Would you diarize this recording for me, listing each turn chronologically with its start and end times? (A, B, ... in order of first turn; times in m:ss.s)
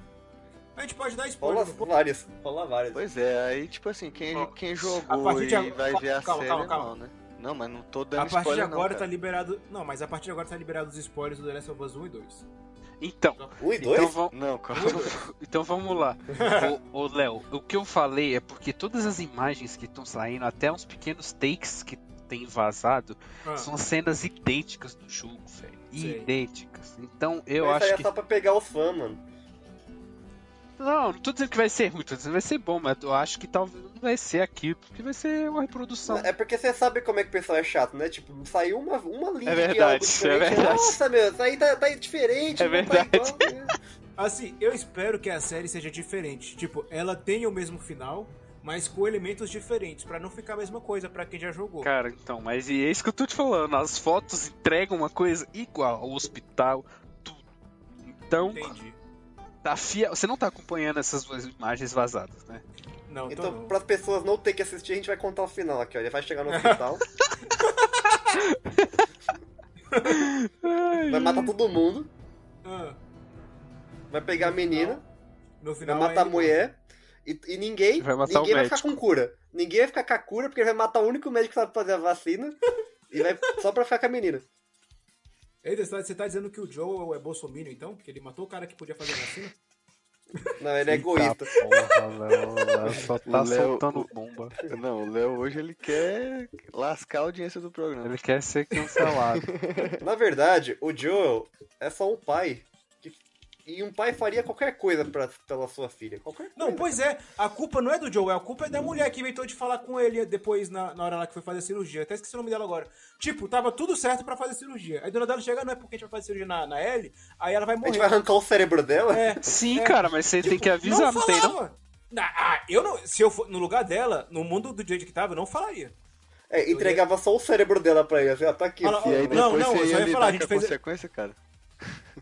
0:00.8-0:01.9 A
0:01.4-0:03.0 B
0:02.9-0:09.1 C
0:04.3-0:07.0 A
0:08.2-0:12.5 A
0:13.0-0:28.1 D
0:13.6-0:14.2 B
0:14.3-0:15.2 C
0:14.7-0:15.1 A
0:16.3-0:16.8 A
0:23.4-0:23.7 A
0:25.9-0:26.3 A
0:27.6-0:29.2 B
0:30.8-0:36.3 D
0:36.1-0:43.7 B
0:39.4-0:41.0 D
0:42.6-0:43.5 D
0:44.2-0:51.9 A
0:51.8-0:57.4 D
0:58.3-0:58.8 D
0:58.3-0:59.0 A
0:59.6-1:02.6 D
1:03.1-1:03.8 A
1:03.3-1:07.1 B
1:06.5-1:06.8 A
1:07.5-1:08.4 A
1:08.4-1:09.1 D
1:09.9-1:10.3 A
1:10.1-1:11.5 D
1:11.1-1:12.1 B
1:12.6-1:13.0 A
1:14.1-1:15.0 B
1:14.4-1:15.0 A
1:15.6-1:16.7 A
1:15.8-1:22.6 B
1:18.0-1:19.0 D
1:23.1-1:24.4 B
1:25.6-1:29.6 A
1:30.6-1:31.5 B
1:30.9-1:34.6 D
1:33.2-1:38.2 C
1:38.0-1:39.5 D
1:39.0-1:40.0 C
1:40.0-1:46.9 B
1:46.6-1:58.2 A
1:57.8-1:59.4 B
1:59.1-2:06.0 A
1:59.4-2:01.6 D
2:06.5-2:09.7 B
2:06.7-2:07.0 A
2:08.8-2:10.8 A
2:09.0-2:12.0 C